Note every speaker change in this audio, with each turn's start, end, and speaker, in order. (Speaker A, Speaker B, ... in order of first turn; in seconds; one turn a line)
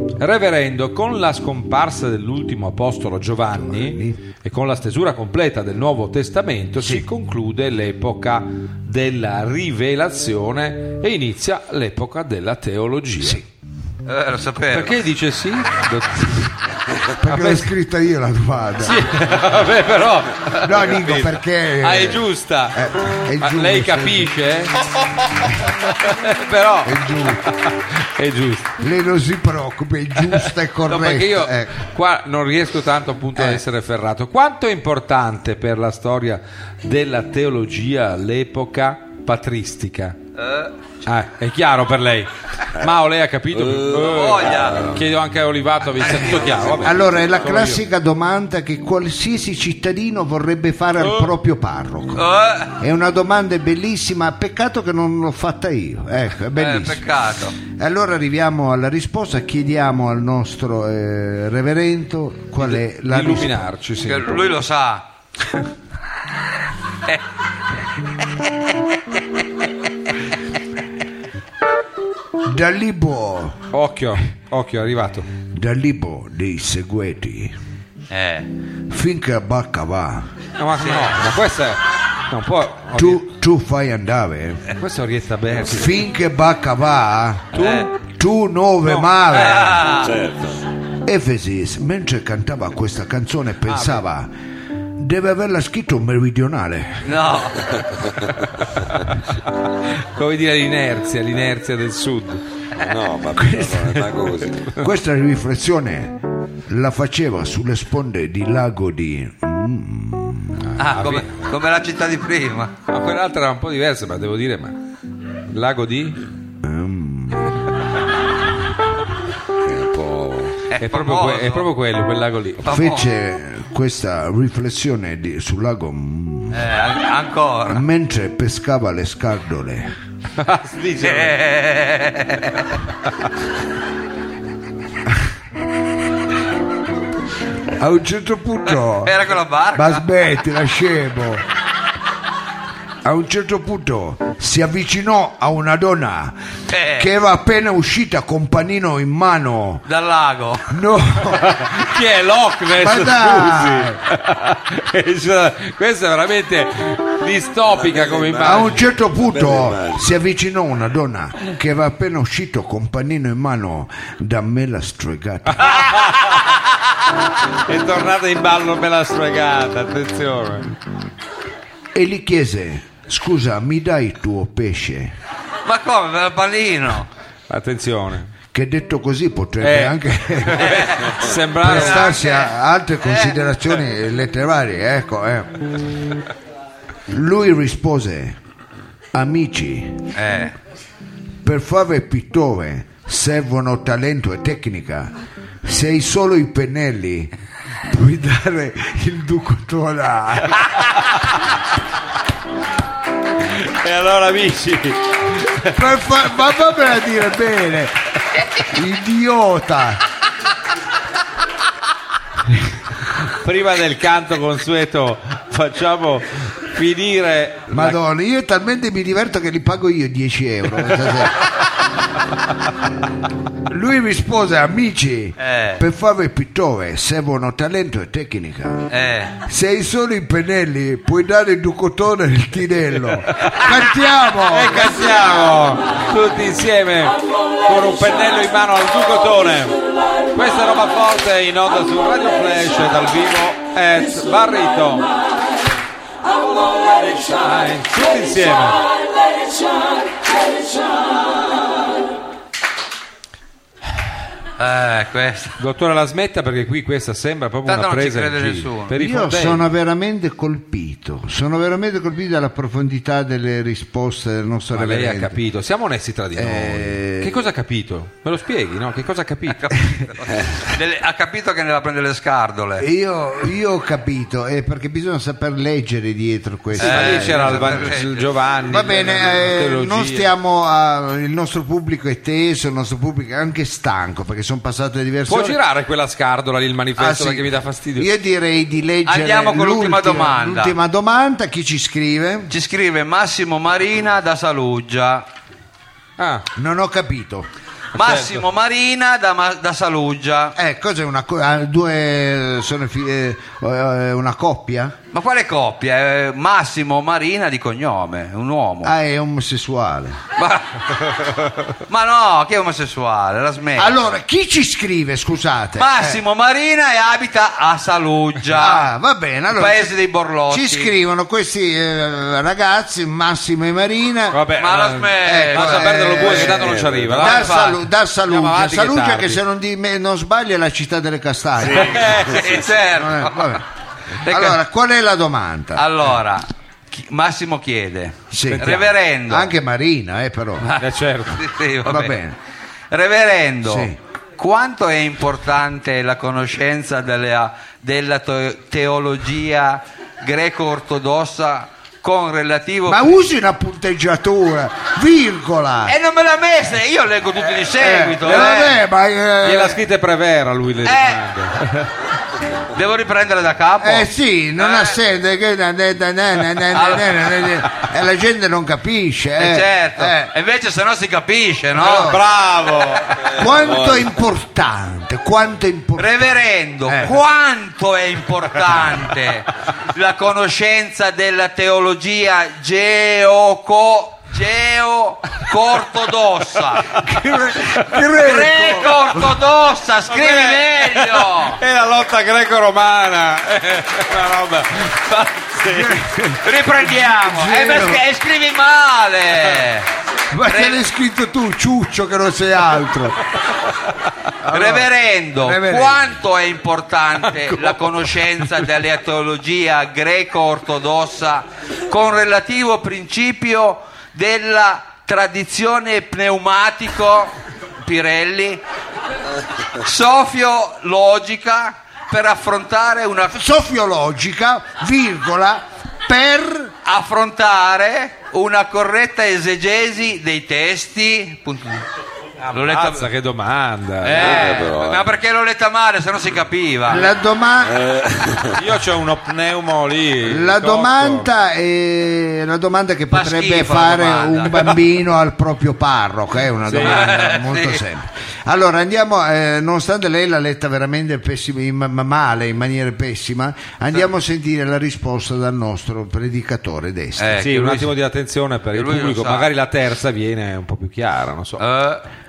Speaker A: 0.2-13.4
Speaker B: 3.5-4.2
Speaker B: 6.8-7.0
Speaker B: 13.2-13.4
Speaker C: 14.1-15.0
Speaker A: 14.7-16.6
Speaker B: 17.2-19.1
Speaker A: 17.2-17.7
Speaker A: 18.8-22.8
Speaker B: 20.6-24.3
Speaker A: 23.4-24.7
Speaker A: 25.8-28.8
Speaker B: 26.8-27.5
Speaker B: 28.8-31.7
Speaker A: 30.3-40.2
Speaker B: 33.4-33.6
Speaker C: 40.4-40.7
Speaker A: 41.0-47.8
Speaker D: 43.5-45.0
Speaker C: 44.0-45.0
Speaker D: 46.2-47.3
Speaker B: 46.8-57.0
Speaker A: 51.0-51.3
Speaker C: 52.1-52.7
Speaker C: 56.5-57.6
Speaker B: 57.6-63.6
Speaker A: 62.6-64.4
Speaker C: 64.0-65.0
Speaker B: 72.4-73.6
Speaker A: 73.7-75.3
Speaker B: 75.5-77.5
Speaker C: 78.1-78.5
Speaker B: 78.9-80.3
Speaker A: 80.6-83.2
Speaker C: 80.8-81.1
Speaker B: 83.0-84.6
Speaker A: 84.8-86.0
Speaker B: 85.6-90.0
Speaker A: 87.5-87.9
Speaker C: 87.5-87.9
Speaker C: 89.2-90.1
Speaker D: 90.0-90.6
Speaker B: 91.0-94.3
Speaker A: 93.7-94.0
Speaker B: 95.0-97.2
Speaker C: 97.0-97.7
Speaker A: 98.9-102.4
Speaker D: 102.8-104.7
Speaker B: 103.3-104.1
Speaker B: 104.7-110.7
Speaker A: 110.7-111.4
Speaker C: 110.8-112.7
Speaker A: 112.9-114.7
Speaker A: 115.5-116.2
Speaker B: 116.6-117.5
Speaker D: 119.6-120.6
Speaker C: 120.7-121.7
Speaker A: 120.8-122.6
Speaker C: 122.6-123.0
Speaker B: 122.7-126.7
Speaker C: 126.5-127.8
Speaker B: 127.7-129.9
Speaker A: 130.4-131.3
Speaker C: 131.0-132.8
Speaker B: 137.7-141.4
Speaker C: 138.9-140.0
Speaker B: 143.0-146.4
Speaker C: 146.7-147.1
Speaker B: 146.9-149.8
Speaker C: 149.8-150.8
Speaker B: 150.7-151.8
Speaker A: 151.3-158.8
Speaker B: 152.7-154.0
Speaker D: 157.7-160.1
Speaker B: 158.4-165.7
Speaker A: 165.5-166.4
Speaker A: 167.6-170.7
Speaker B: 171.9-175.1
Speaker C: 175.6-177.1
Speaker A: 177.5-178.3
Speaker B: 178.5-180.9
Speaker A: 179.6-182.0
Speaker C: 180.6-182.5
Speaker B: 181.6-185.6
Speaker C: 183.0-183.3
Speaker B: 187.1-188.4
Speaker B: 189.1-190.0
Speaker C: 190.1-190.5
Speaker B: 191.4-197.3
Speaker B: 197.8-200.8
Speaker A: 203.4-205.7
Speaker B: 205.7-207.9
Speaker B: 208.6-210.0
Speaker A: 213.2-218.0
Speaker B: 217.7-221.4
Speaker B: 223.6-228.9
Speaker C: 225.4-225.8
Speaker C: 228.9-229.3
Speaker B: 229.4-235.0
Speaker A: 233.3-233.7
Speaker A: 234.5-239.8
Speaker A: 240.3-245.1
Speaker A: 246.4-248.8
Speaker C: 254.6-255.6
Speaker A: 255.6-259.6
Speaker C: 257.6-259.0
Speaker B: 258.9-265.4
Speaker A: 264.7-269.6
Speaker B: 266.4-267.4
Speaker C: 269.5-272.9
Speaker B: 272.8-278.0
Speaker A: 276.8-280.3
Speaker C: 276.8-278.3
Speaker B: 278.7-285.6
Speaker A: 285.3-288.1
Speaker B: 287.0-292.5
Speaker C: 289.1-290.7
Speaker C: 292.5-295.2
Speaker A: 296.2-296.4
Speaker B: 296.6-297.5
Speaker A: 297.9-298.4
Speaker C: 297.9-300.5
Speaker B: 300.6-304.9
Speaker C: 305.1-308.9
Speaker B: 308.8-310.2
Speaker C: 310.4-310.8
Speaker C: 311.9-314.0
Speaker B: 313.8-316.2
Speaker C: 315.8-318.9
Speaker B: 318.5-324.5
Speaker C: 319.5-320.9
Speaker A: 324.3-327.6
Speaker C: 324.6-326.6
Speaker B: 325.2-333.6
Speaker D: 326.6-327.2
Speaker C: 327.2-327.8
Speaker A: 328.3-329.4
Speaker D: 331.6-332.7
Speaker A: 331.9-332.3
Speaker C: 332.2-333.6
Speaker B: 334.2-335.9
Speaker C: 334.2-334.6
Speaker C: 335.7-339.5
Speaker B: 338.3-340.7
Speaker A: 338.5-338.9
Speaker C: 340.6-342.1
Speaker A: 340.8-341.4
Speaker B: 341.8-342.4
Speaker C: 342.9-353.0
Speaker B: 343.6-344.0
Speaker B: 352.9-355.9
Speaker C: 355.9-358.8
Speaker B: 357.6-359.8
Speaker A: 358.3-358.5
Speaker A: 359.4-361.9
Speaker C: 360.8-361.2
Speaker C: 362.7-364.1
Speaker B: 363.8-370.3
Speaker C: 364.6-365.0
Speaker C: 366.7-367.6
Speaker C: 369.4-373.0
Speaker B: 371.7-372.2
Speaker A: 371.9-373.2
Speaker B: 373.3-376.3
Speaker D: 373.4-374.1
Speaker C: 376.0-386.9
Speaker B: 376.8-377.2
Speaker B: 386.9-389.4
Speaker C: 388.1-391.6
Speaker A: 390.1-395.9
Speaker B: 395.6-398.0
Speaker C: 396.4-399.9
Speaker B: 400.3-403.2
Speaker C: 400.5-400.8
Speaker B: 404.4-406.1
Speaker C: 404.5-418.6
Speaker C: 419.8-423.4
Speaker B: 423.3-426.7
Speaker C: 426.8-431.8
Speaker A: 432.4-434.4
Speaker C: 432.5-433.1
Speaker C: 434.0-437.1
Speaker D: 434.1-435.1
Speaker B: 436.9-437.8
Speaker D: 437.6-438.6
Speaker A: 438.6-441.3
Speaker B: 440.2-457.4
Speaker C: 443.1-444.6
Speaker A: 446.7-447.0
Speaker C: 446.8-447.8
Speaker C: 457.2-457.9
Speaker A: 457.4-461.6
Speaker C: 458.7-459.5
Speaker C: 461.6-462.0